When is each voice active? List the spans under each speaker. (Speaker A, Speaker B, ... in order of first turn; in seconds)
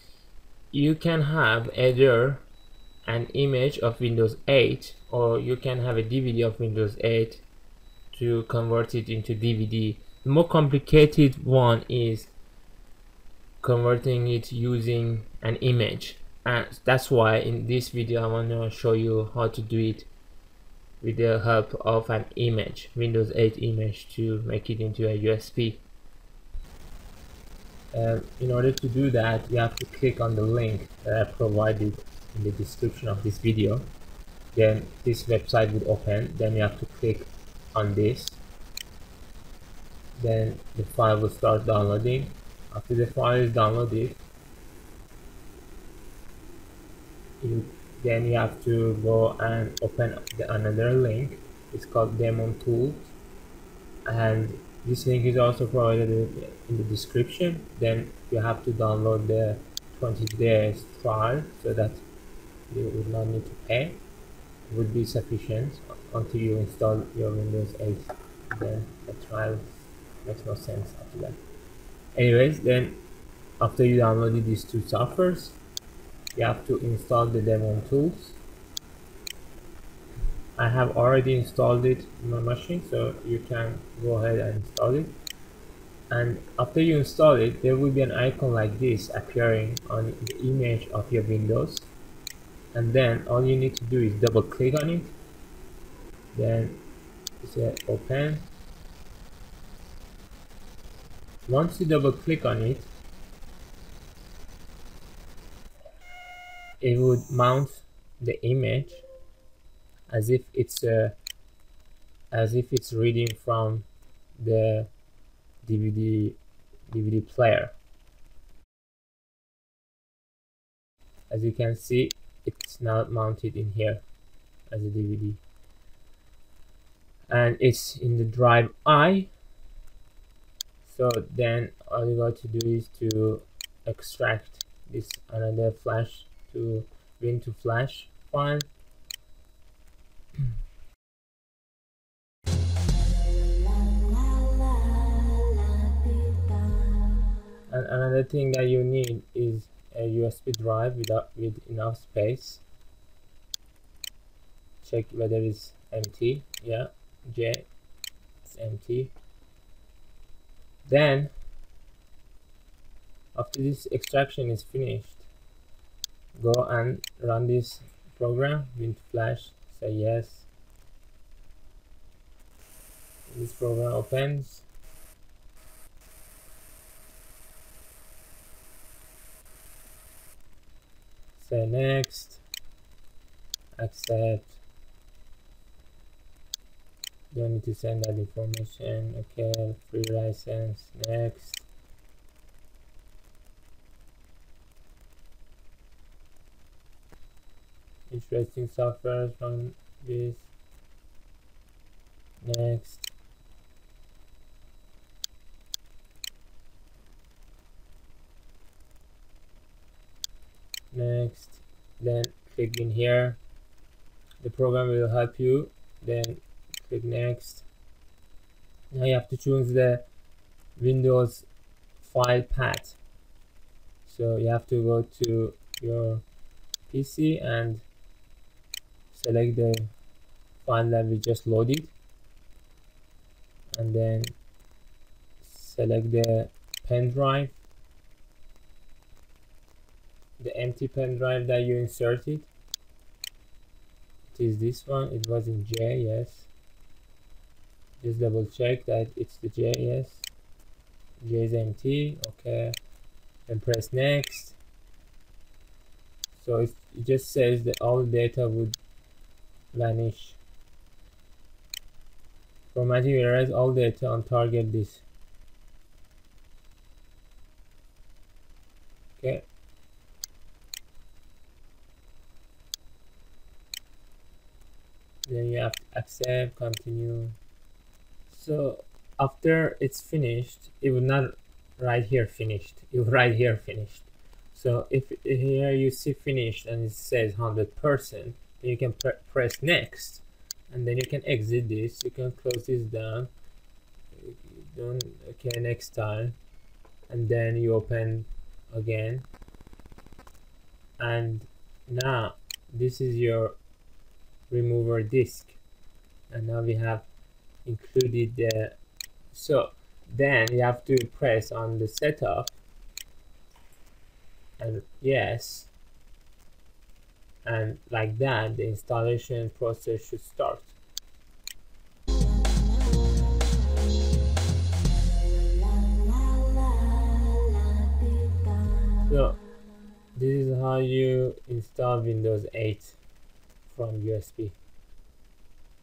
Speaker A: 0.7-2.5, 3.0-7.4, 8.1-12.3, 13.6-20.1, 21.0-25.9, 27.9-33.9, 34.5-38.4, 40.2-44.2, 47.4-53.1, 54.1-62.0, 62.7-64.0, 64.7-71.4, 72.2-73.0, 73.6-75.6, 76.3-78.4, 80.6-85.1, 86.1-91.9, 92.7-95.1, 96.3-96.8, 97.4-98.5, 101.5-102.9, 106.8-109.1, 110.1-111.2, 112.3-114.9, 115.6-117.7, 121.3-124.0, 124.7-125.4, 127.3-129.3, 130.8-138.7, 147.7-152.6, 154.8-157.7, 158.5-159.1, 160.8-161.3, 163.3-165.2, 166.4-170.5, 173.3-174.7, 181.4-182.4, 183.8-184.6, 187.3-191.7, 198.1-200.5, 202.4-203.1, 210.9-213.4, 214.4-217.7, 218.9-220.1, 220.8-221.5, 222.0-223.0, 224.1-226.2, 226.9-227.8, 229.1-229.9, 230.6-231.9, 233.7-234.4, 235.4-237.6, 240.4-242.5, 244.3-246.5, 248.0-250.3, 251.2-252.8, 253.5-254.6, 256.3-258.8, 259.7-260.4, 262.7-265.0, 269.2-269.5, 275.2-277.4, 278.3-293.3, 294.1-296.4, 297.1-299.3, 301.0-303.6, 304.5-305.6, 306.3-307.1, 307.6-308.8, 309.3-312.6, 314.6-315.7, 317.4-320.8, 329.0-329.4, 330.1-333.0, 333.7-334.6